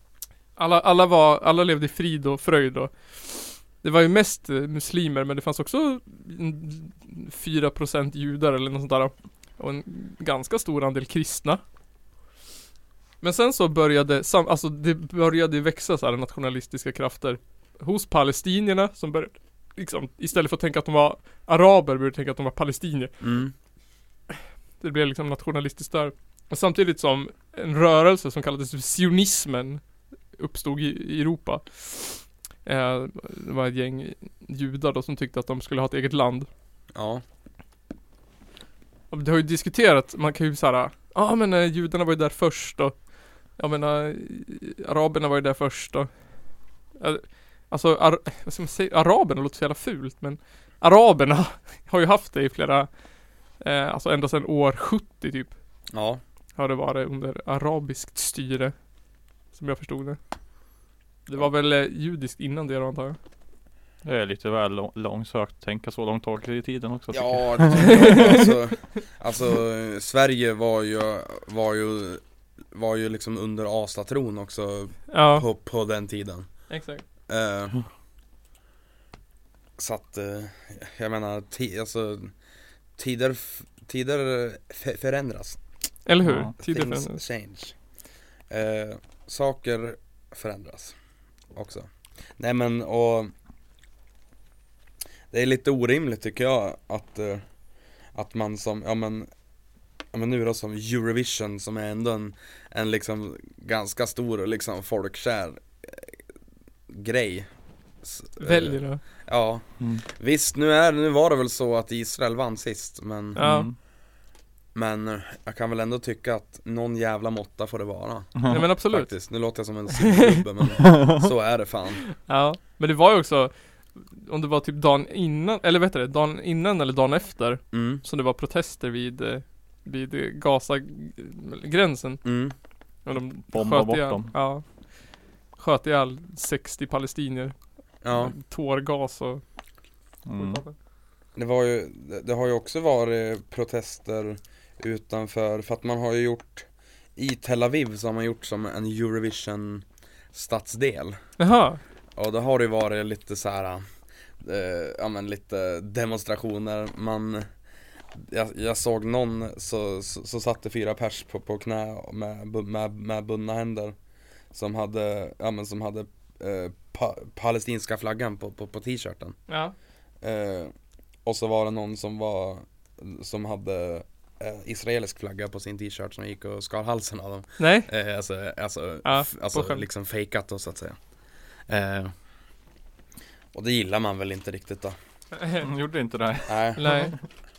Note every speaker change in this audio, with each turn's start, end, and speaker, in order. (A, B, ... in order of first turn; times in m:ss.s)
0:00.6-0:11.6 A
0:13.2-0:23.1 A
0:23.2-0:23.5 B
0:24.8-0:29.8 A
0:30.4-0:36.5 A
0:36.9-0:37.2 B
0:39.1-0:43.0 A
0:43.6-0:46.1 A
0:47.0-0:52.9 A
0:53.6-0:55.5 A
0:55.9-0:56.2 B
0:56.6-0:58.7 A
0:59.5-1:00.2 A
1:01.3-1:03.2 A
1:04.0-1:08.3 C
1:07.1-1:16.5 B
1:07.9-1:08.5 A
1:15.1-1:15.4 A
1:16.7-1:17.0 A
1:17.3-1:17.8 B
1:19.8-1:22.3 B
1:23.0-1:25.6 B
1:26.1-1:27.2 A
1:26.2-1:26.5 C
1:26.6-1:27.8 B
1:28.5-1:31.0 B
1:31.5-1:33.3 B
1:35.3-1:37.4 B
1:38.1-1:39.3 B
1:40.1-1:46.2 B
1:46.9-1:47.5 B
1:48.0-1:53.5 B
1:48.4-1:49.0 A
1:53.4-1:53.7 A
1:53.4-1:53.7 C
1:54.8-2:02.0 B
1:58.4-1:58.6 C
1:58.5-1:59.1 A
2:00.1-2:00.4 A
2:00.8-2:01.2 C
2:02.2-2:12.2 A
2:07.7-2:08.0 B
2:12.2-2:12.5 B
2:13.1-2:14.6 A
2:13.5-2:14.3 C
2:15.6-2:17.6 A
2:18.0-2:18.4 B
2:18.1-2:19.4 A
2:20.3-2:20.6 C
2:20.4-2:20.7 A
2:21.4-2:31.2 B
2:31.4-2:31.8 A
2:32.2-2:33.8 B
2:34.4-2:37.5 B
2:38.1-2:43.9 B
2:44.5-2:49.4 B
2:49.5-2:49.7 A
2:50.2-2:50.7 B
2:51.2-3:01.0 B
2:57.6-2:57.9 A
2:59.0-2:59.8 A
3:01.7-3:02.1 B
3:03.5-3:05.0 B
3:05.6-3:07.2 C
3:06.5-3:07.0 B
3:06.8-3:07.2 A